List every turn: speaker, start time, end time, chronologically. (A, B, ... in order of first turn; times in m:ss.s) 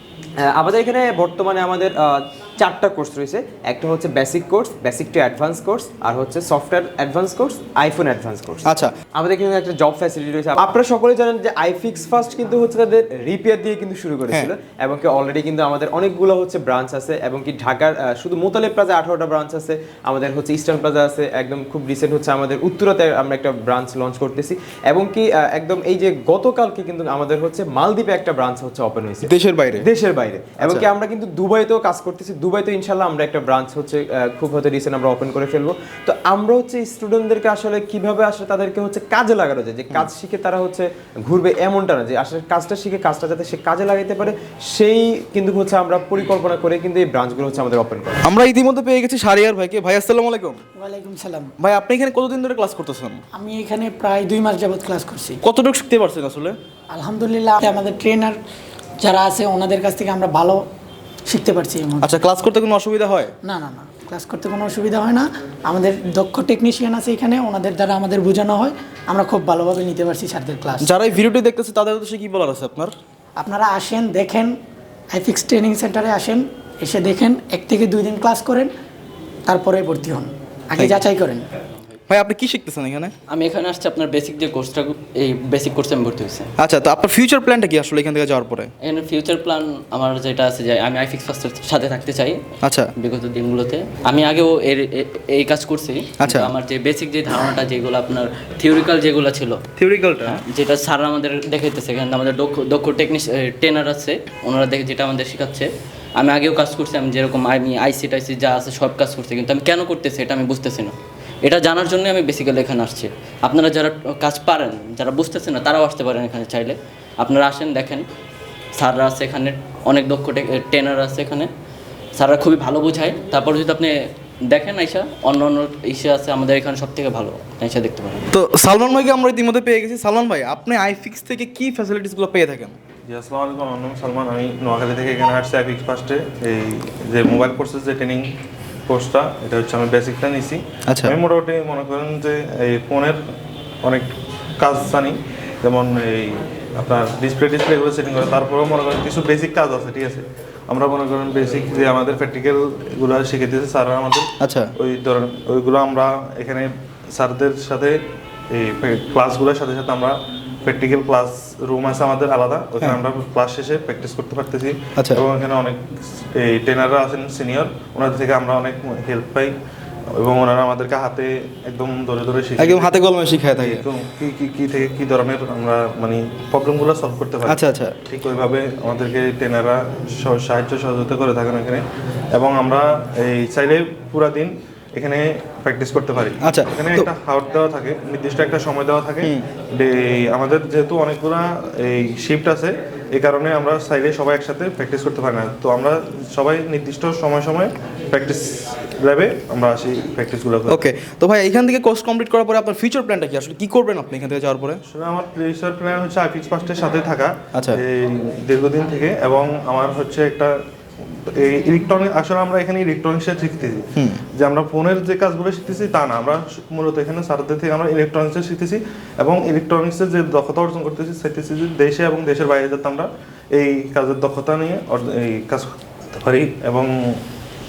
0:00.4-0:48.2 A
0:08.7-0:08.9 B
0:29.2-0:29.9 B
0:30.6-0:30.9 B
0:48.2-0:50.6 B
0:50.8-0:51.5 C
0:51.6-0:53.2 B
0:53.3-0:55.4 C
0:55.4-0:56.6 B
0:56.9-0:58.4 C
0:59.0-1:00.6 C
1:01.3-1:02.1 C
1:02.0-1:03.3 B
1:03.4-1:10.9 C
1:10.8-1:12.9 B
1:13.4-1:14.6 C
1:15.1-1:18.7 C
1:19.5-1:21.5 C
1:20.8-1:21.1 B
1:22.1-1:23.1 B
1:23.3-1:26.5 D
1:26.6-1:28.7 B
1:28.8-1:32.4 D
1:32.6-1:32.9 B
1:33.0-1:39.6 D
1:36.2-1:36.5 B
1:39.8-1:40.4 B
1:40.2-1:58.0 D
1:58.8-2:01.5 D
2:02.2-2:03.9 D
2:04.5-2:08.2 D
2:08.3-2:12.8 B
2:13.1-2:18.3 E
2:18.9-2:23.2 E
2:20.9-2:21.1 B
2:23.8-2:38.0 E
2:34.4-2:34.7 B
2:38.5-2:45.8 E
2:46.3-2:49.5 E
2:50.1-2:52.9 E
2:52.6-2:53.8 B
2:53.6-3:20.8 E
2:57.4-2:58.0 B
3:06.4-3:07.1 B
3:20.7-3:24.8 B
3:24.9-3:30.5 E
3:27.5-3:27.8 B
3:31.2-3:33.8 E
3:34.4-3:46.9 E